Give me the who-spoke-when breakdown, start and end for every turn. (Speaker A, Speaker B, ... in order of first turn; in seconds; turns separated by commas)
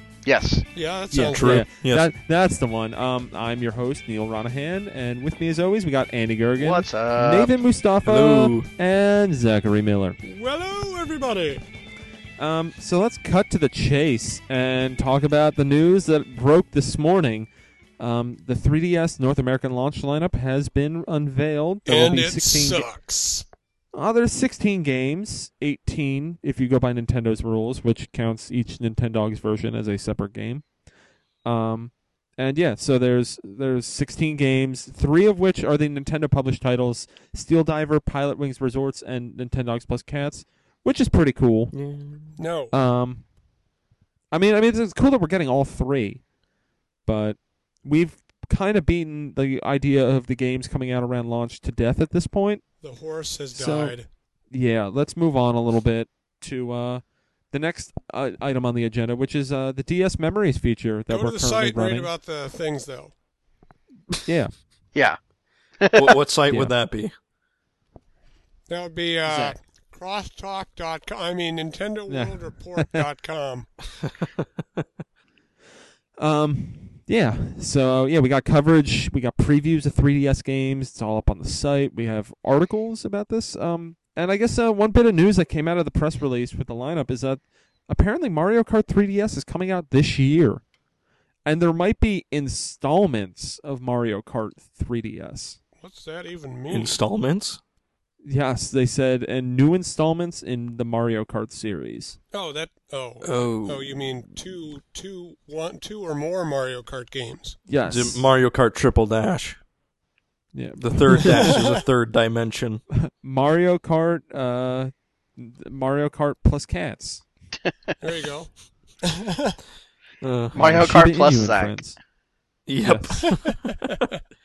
Speaker A: 0.2-0.7, Speaker B: 0.7-1.6, Speaker C: 1.1-10.2, Speaker D: 1.3-2.1, Speaker A: 6.6-7.5, Speaker D: 8.0-8.7, Speaker B: 10.2-11.6, Speaker C: 12.4-17.5, Speaker C: 18.0-22.9, Speaker B: 21.9-23.4, Speaker C: 23.9-30.6, Speaker C: 31.4-41.7, Speaker D: 41.7-42.3, Speaker B: 42.4-42.7, Speaker C: 42.7-43.2, Speaker C: 44.3-46.2, Speaker C: 47.0-52.7, Speaker B: 52.8-54.1, Speaker C: 53.5-54.0, Speaker C: 54.5-62.1, Speaker B: 61.1-63.1, Speaker C: 64.2-64.5, Speaker A: 65.8-66.2, Speaker D: 65.9-67.1, Speaker B: 68.7-73.8, Speaker C: 69.2-69.6, Speaker C: 72.1-73.0, Speaker D: 74.2-74.8, Speaker C: 76.2-90.6, Speaker C: 91.4-95.6, Speaker B: 95.8-97.0, Speaker D: 96.7-97.6, Speaker C: 98.2-102.2, Speaker B: 102.3-107.6, Speaker D: 103.2-104.0, Speaker C: 107.7-108.2, Speaker D: 107.9-109.6, Speaker C: 110.5-111.6, Speaker D: 110.8-112.8, Speaker B: 111.2-111.5, Speaker C: 113.0-117.2, Speaker B: 118.0-119.5, Speaker D: 120.2-120.6, Speaker A: 120.5-121.7, Speaker C: 120.5-122.0, Speaker D: 122.7-124.1, Speaker C: 122.8-123.5, Speaker B: 123.2-123.7